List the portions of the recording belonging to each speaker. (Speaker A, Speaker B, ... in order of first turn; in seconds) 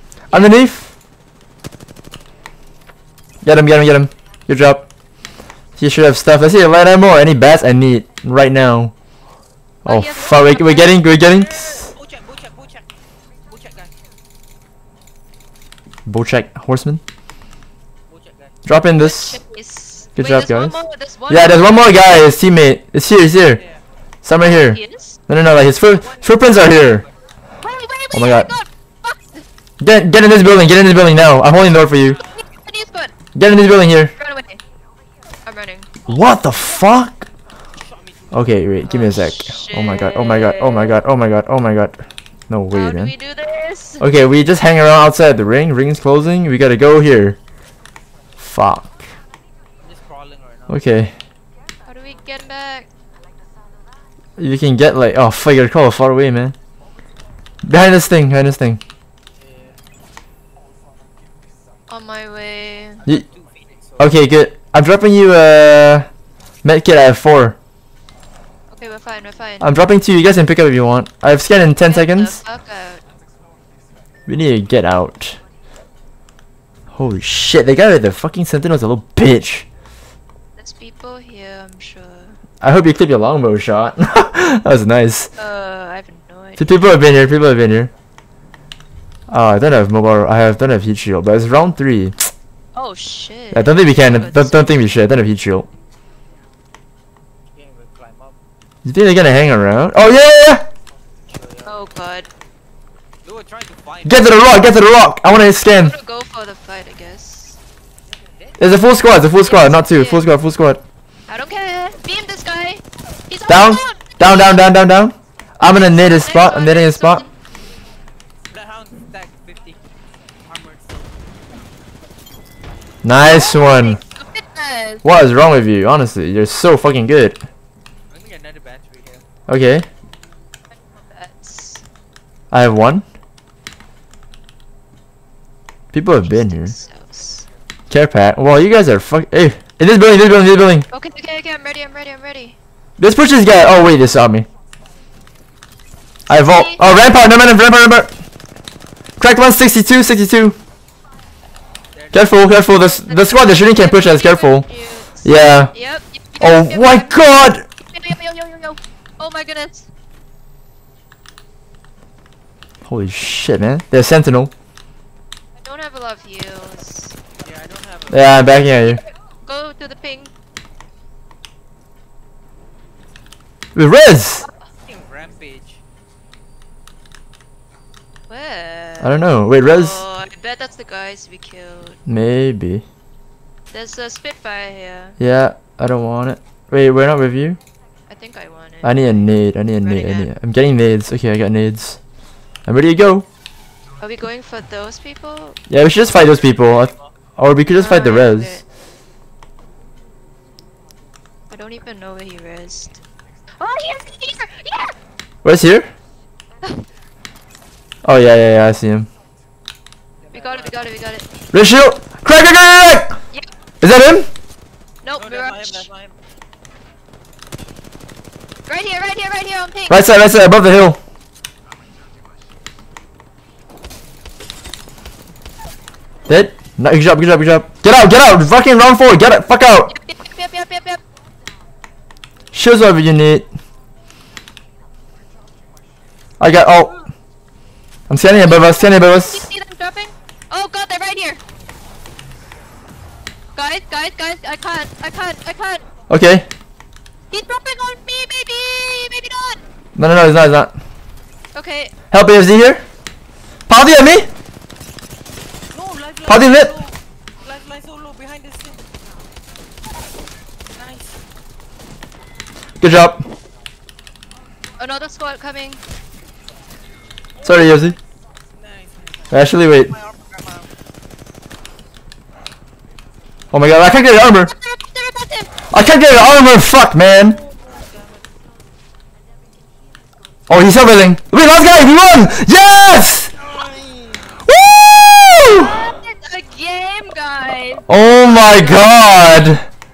Speaker A: 0.3-0.9, 3.4-4.9, 5.8-8.9, 9.8-11.9, 16.1-17.0, 18.6-19.4, 20.1-20.8, 21.3-23.6, 24.2-27.0, 28.1-28.5, 29.8-32.2, 33.3-34.1, 36.0-37.3, 38.3-43.1, 44.0-47.4, 48.4-48.9, 50.7-51.1, 54.4-56.5, 57.6-58.8, 64.0-66.1, 66.6-67.5, 69.6-72.4, 74.3-75.4, 76.9-79.7, 82.6-85.3, 86.6-87.9, 89.3-92.3, 93.5-95.7, 98.8-100.7, 104.0-105.9, 108.6-110.8, 113.5-117.2, 123.0-124.0, 125.0-127.4, 129.5-129.8, 132.5-133.1, 135.9-136.7, 137.9-140.9, 143.0-144.5, 146.3-148.1, 149.2-150.6, 152.1-154.6, 155.2-155.7, 156.4-157.6, 162.8-164.5, 168.1-169.0, 173.7-174.4, 179.0-180.0, 182.1-182.8, 185.2-187.6, 188.8-192.0, 192.7-193.2, 195.7-198.6, 205.4-205.9, 208.0-209.1, 211.5-213.2, 213.8-214.3, 219.9-221.0, 226.3-229.9, 232.5-233.5, 236.4-236.9, 238.1-239.4, 246.1-246.5, 249.9-250.7, 252.1-252.8, 253.7-254.3, 256.3-256.7, 262.8-263.2, 267.4-267.9, 269.3-269.9, 273.5-274.5, 275.7-277.4, 280.5-283.3, 284.4-285.8, 287.9-289.6
Speaker B: 9.8-11.0, 18.9-21.9, 24.4-25.2, 25.8-26.7, 27.6-29.4, 32.3-33.1, 34.1-34.6, 35.5-36.0, 38.9-41.0, 42.7-44.0, 51.9-52.9, 61.9-63.0, 68.7-69.7, 71.8-73.0, 80.6-82.4, 85.4-86.8, 92.7-94.8, 101.7-102.3, 105.6-107.6, 109.4-110.3, 111.3-114.7, 115.6-117.3, 123.2-125.0, 131.1-131.8, 136.2-137.5, 140.9-142.6, 146.3-146.8, 152.7-159.9, 165.6-167.2, 168.7-170.3, 178.3-182.0, 183.7-185.2, 188.1-189.2, 189.8-190.3, 194.0-195.6, 197.7-198.6, 201.5-203.0, 203.6-204.9, 210.3-211.3, 215.0-215.9, 218.7-220.0, 229.9-231.0, 236.7-237.0, 238.2-241.4, 243.5-245.8, 247.3-249.6, 251.5-251.9, 264.8-265.8, 274.2-275.7, 285.3-289.1
Speaker C: 11.1-12.9, 13.4-13.9, 18.1-18.6, 23.5-23.8, 31.9-32.4, 37.8-38.8, 49.8-50.9, 59.4-59.8, 63.0-64.1, 97.5-98.4, 101.3-101.8, 103.2-104.7, 108.1-108.8, 118.5-119.8, 120.4-121.3, 128.1-129.2, 151.9-152.6, 167.4-168.6, 174.8-175.8, 196.3-197.1, 210.2-210.8, 215.2-216.2, 255.7-258.9, 260.7-261.2, 268.5-270.7, 277.4-278.2, 283.3-284.4